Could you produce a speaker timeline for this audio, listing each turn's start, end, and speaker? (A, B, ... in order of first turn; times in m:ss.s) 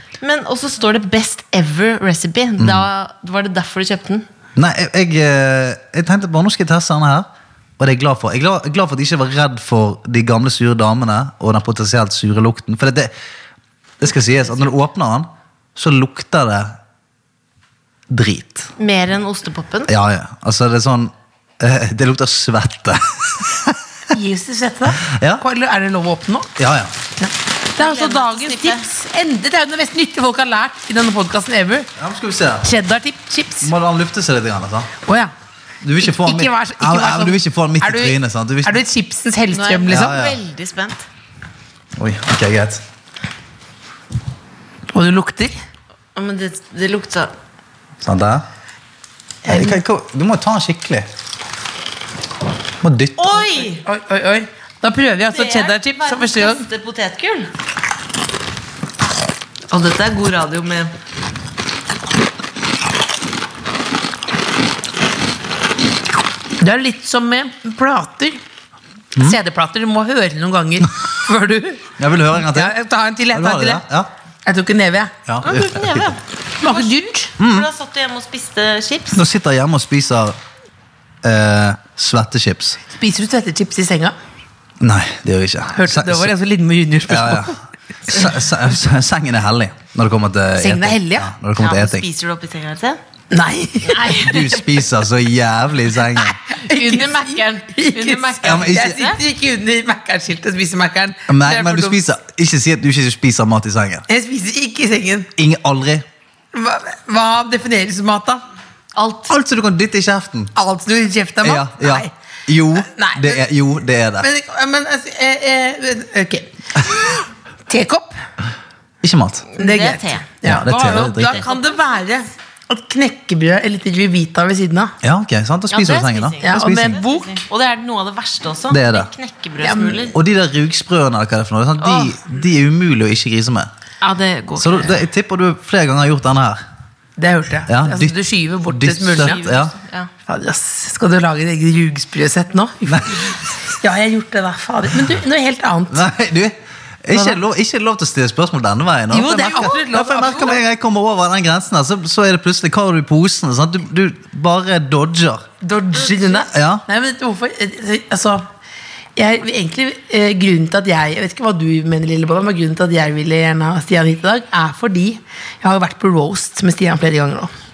0:00.2-0:04.2 A
0:02.6-0:02.8 B
0:04.6-0:07.3 B
0:07.8-0:13.1 B
0:14.0-0:16.8 B
0:14.2-0:14.7 A
0:18.1-0:18.7 B
0:18.8-0:19.9 A
0:19.9-0:24.1 B
0:24.1-0:26.5 C
0:25.0-0:25.4 B
0:26.6-0:26.9 B
0:27.2-0:31.9 C
0:27.8-0:28.8 A
0:32.0-0:32.7 B
0:32.6-0:33.7 C
0:33.6-0:34.9 B
0:35.0-0:35.3 C
0:35.8-0:38.8 B
0:36.0-0:40.2 C
0:39.5-0:41.0 A
0:39.9-0:40.4 B
0:42.0-0:42.8 B
0:44.9-0:45.5 C
0:46.1-0:47.3 A
0:48.0-0:48.4 B
0:49.4-0:49.8 C
0:49.5-0:51.1 B
0:52.8-0:53.5 B
0:53.2-0:53.8 A
0:53.8-0:56.6 C
0:55.3-0:57.5 A
0:59.7-1:00.9 A
1:06.6-1:08.4 C
1:09.2-1:13.8 C
1:12.0-1:12.7 B
1:13.3-1:14.1 B
1:14.4-1:15.1 C
1:15.2-1:16.1 B
1:15.4-1:19.2 A
1:16.6-1:17.3 C
1:17.4-1:17.7 B
1:19.1-1:20.4 B
1:21.2-1:22.8 B
1:22.9-1:24.2 C
1:24.8-1:26.3 B
1:25.7-1:27.6 C
1:27.1-1:32.1 B
1:30.6-1:31.3 C
1:31.6-1:33.0 A
1:33.3-1:34.1 C
1:33.9-1:34.7 A
1:34.1-1:36.4 B
1:36.5-1:39.2 A
1:36.7-1:42.0 C
1:38.4-1:39.0 B
1:41.3-1:44.0 B
1:44.1-1:45.3 C
1:45.4-1:46.0 B
1:46.5-1:48.4 C
1:48.9-1:49.3 A
1:49.3-1:50.5 B
1:50.5-1:52.1 C
1:51.4-1:54.3 B
1:52.8-1:53.4 C
1:54.2-1:57.0 C
1:57.7-1:58.1 C
1:59.0-1:59.5 B
1:59.5-2:00.3 A
1:59.6-2:04.9 C
2:00.4-2:01.5 B
2:05.0-2:07.0 B
2:05.7-2:10.2 A
2:06.4-2:07.4 C
2:08.7-2:09.1 B
2:09.6-2:10.1 C
2:10.1-2:13.7 B
2:14.0-2:15.0 A
2:14.6-2:16.6 B
2:17.2-2:19.4 C
2:17.7-2:19.7 B
2:19.2-2:20.1 A
2:20.2-2:26.0 C
2:22.9-2:23.3 B
2:25.9-2:35.5 B
2:27.1-2:27.4 C
2:29.1-2:30.6 C
2:35.6-2:38.5 C
2:36.0-2:36.5 A
2:36.5-2:36.8 B
2:39.2-2:47.5 C